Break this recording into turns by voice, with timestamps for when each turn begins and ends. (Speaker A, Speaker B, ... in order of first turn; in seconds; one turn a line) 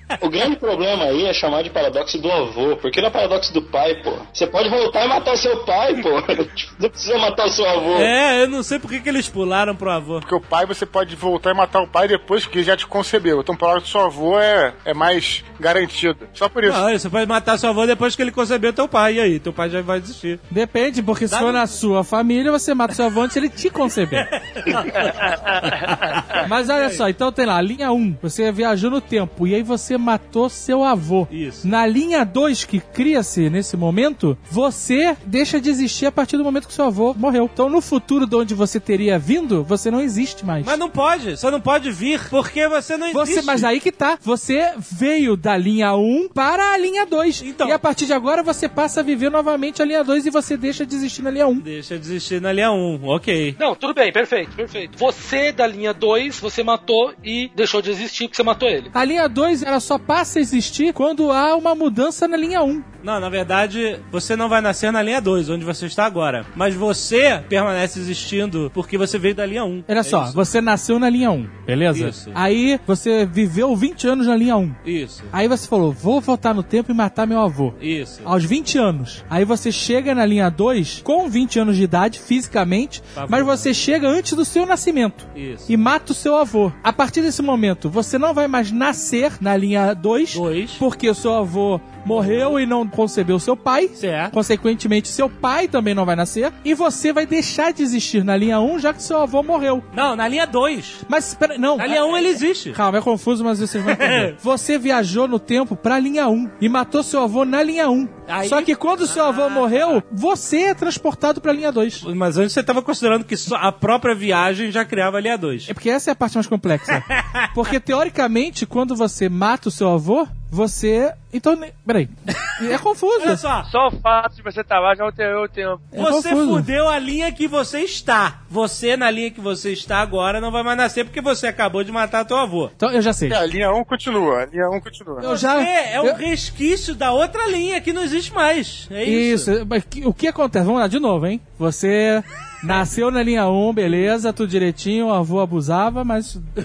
Speaker A: 0.2-8.1
Speaker B: 7.9-10.2
Speaker C: 10.2-16.8
Speaker B: 16.6-20.4
Speaker D: 20.5-24.3
Speaker B: 21.3-21.8
Speaker B: 24.1-27.0
Speaker D: 26.4-40.8
Speaker B: 31.3-31.6
Speaker B: 40.6-43.7
Speaker D: 43.1-51.6
Speaker B: 47.4-47.8
Speaker B: 51.6-53.6
Speaker E: 53.6-58.9
Speaker D: 58.9-62.9
Speaker B: 63.0-70.4
Speaker D: 69.9-74.8
Speaker B: 71.9-72.4
Speaker B: 74.8-75.3
Speaker D: 75.3-99.8
Speaker B: 77.8-78.3
Speaker B: 83.1-83.7
Speaker B: 85.3-85.7
Speaker B: 90.3-90.8
Speaker B: 94.0-94.3
Speaker B: 99.9-101.0
Speaker D: 101.1-112.0
Speaker B: 101.8-102.8
Speaker B: 103.8-104.3
Speaker B: 108.3-110.0
Speaker B: 112.0-115.7
Speaker D: 115.7-123.4
Speaker B: 117.1-117.5
Speaker B: 122.5-123.7
Speaker F: 123.7-125.9
Speaker D: 125.9-126.7
Speaker B: 126.0-132.7
Speaker D: 132.8-133.4
Speaker C: 133.3-135.2
Speaker D: 135.2-136.2
Speaker B: 135.2-139.5
Speaker D: 139.0-146.4